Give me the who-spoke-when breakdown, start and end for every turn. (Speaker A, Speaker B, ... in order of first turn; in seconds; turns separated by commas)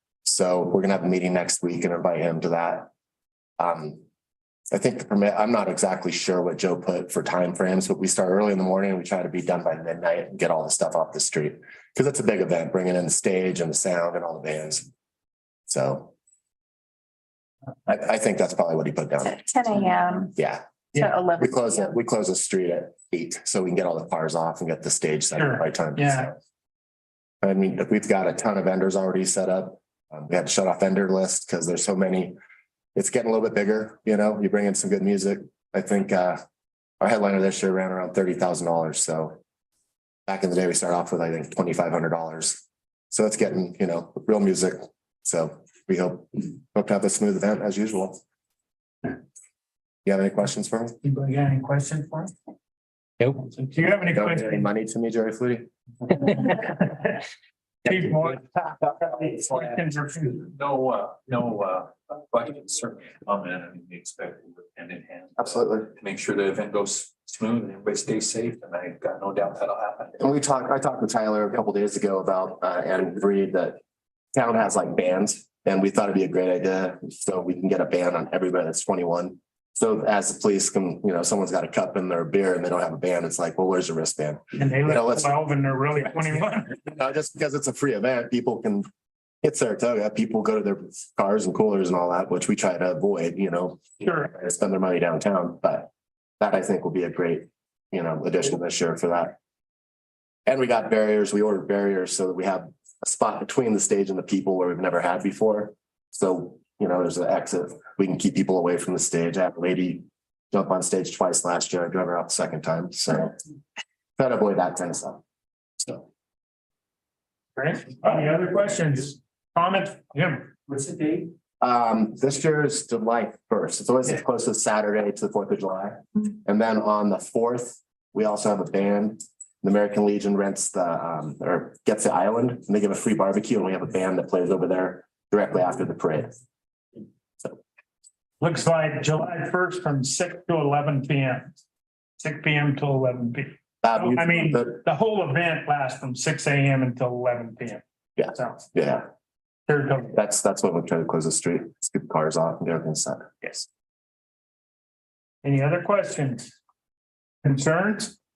Speaker A: 0.2-2.9, Speaker A: 3.6-4.0, Speaker A: 4.7-14.9, Speaker A: 15.7-16.1, Speaker A: 17.9-19.4, Speaker B: 19.2-20.3, Speaker A: 20.3-26.4, Speaker B: 21.0-21.9, Speaker C: 25.3-26.3, Speaker A: 27.4-32.4, Speaker A: 32.9-36.4, Speaker A: 37.0-39.4, Speaker A: 40.3-48.2, Speaker A: 50.0-51.0, Speaker C: 51.0-52.3, Speaker C: 53.4-54.7, Speaker A: 54.1-55.7, Speaker C: 56.5-57.0, Speaker C: 57.8-58.5, Speaker C: 59.0-60.5, Speaker D: 60.4-70.2, Speaker A: 65.4-65.9, Speaker A: 70.2-73.8, Speaker A: 74.3-85.3, Speaker C: 84.5-86.7, Speaker A: 86.8-88.9, Speaker A: 89.4-99.3, Speaker C: 94.0-94.3, Speaker A: 100.5-113.3, Speaker A: 114.2-115.2, Speaker C: 117.5-121.3, Speaker A: 121.6-136.3, Speaker C: 138.4-141.6, Speaker C: 142.2-148.6, Speaker A: 143.8-144.8, Speaker A: 148.2-149.1, Speaker C: 149.7-150.1, Speaker A: 150.1-153.6, Speaker C: 155.4-156.5, Speaker C: 157.4-158.2